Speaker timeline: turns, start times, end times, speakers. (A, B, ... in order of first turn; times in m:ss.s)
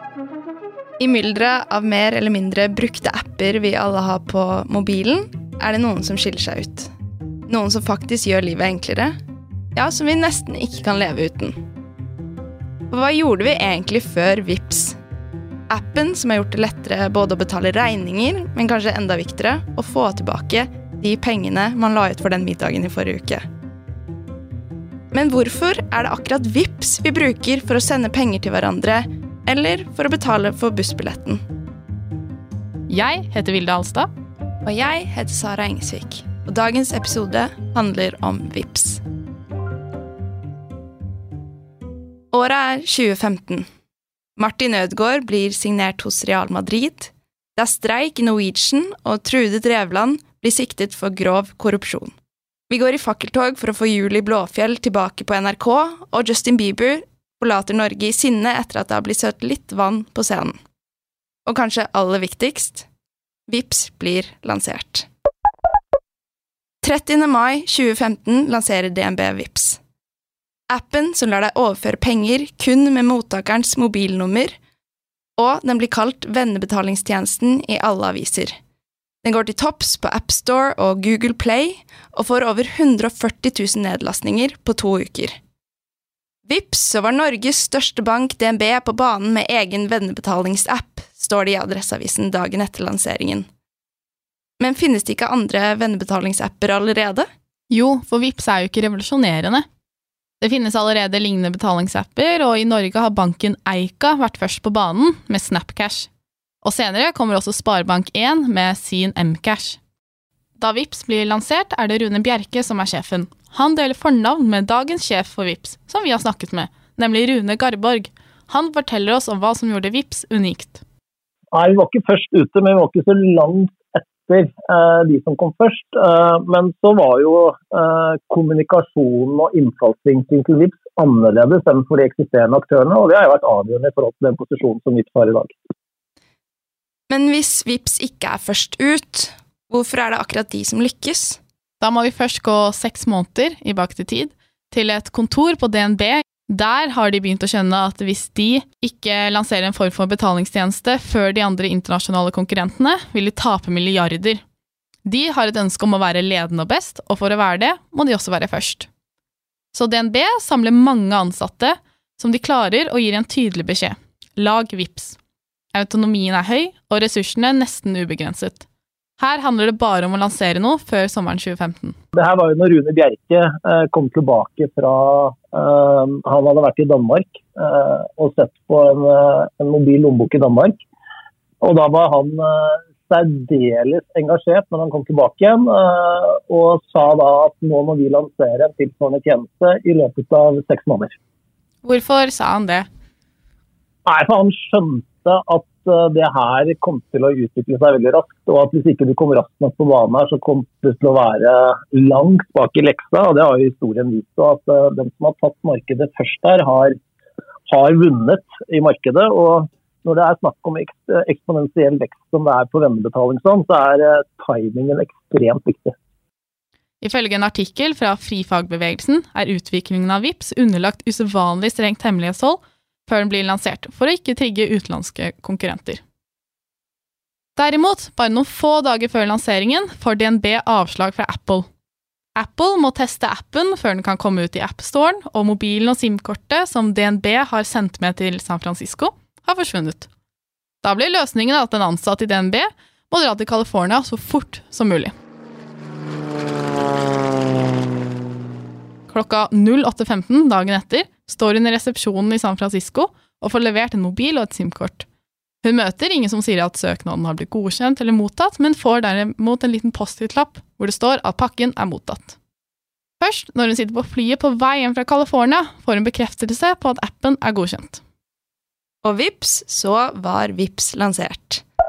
0:01.0-0:06.9 A
0:07.5-0:09.1 A
0:09.8-0:11.6 A
0:12.9-0:15.0 A
0:15.7-0:23.4 A
0:25.1-0:31.4 A
0:32.9-0:34.1 B
0:34.6-0:39.0 A
0:42.3-0:43.7 A
0:44.4-0:52.1 A
0:52.7-1:00.6 A
1:01.5-1:02.9 A
1:03.5-1:05.1 A
1:06.8-1:09.8 A
1:10.7-1:14.5 A
1:15.4-1:18.5 A
1:19.2-1:25.4 A
1:26.5-1:33.5 A
1:34.6-1:37.3 A
1:37.7-1:39.7 B
1:40.4-1:46.1 B
1:46.6-1:49.8 B
1:50.6-2:00.8 B
2:01.5-2:15.6 C
2:17.1-2:21.4 A
2:21.8-2:34.4 B
2:35.0-2:38.9 B
2:39.7-2:45.2 B
2:45.7-2:48.6 B
2:49.2-2:52.0 B
2:52.2-3:00.8 C
3:01.6-3:11.2 C
3:11.8-3:12.9 B
3:14.1-3:27.0 C
3:27.7-3:36.0 C
3:37.0-3:46.0 B
3:47.6-3:51.6 B
3:52.4-4:00.1 B
4:00.8-4:05.1 B
4:09.1-4:15.1 B
4:15.6-4:22.4 B
4:23.2-4:28.0 B
4:29.0-4:31.6 A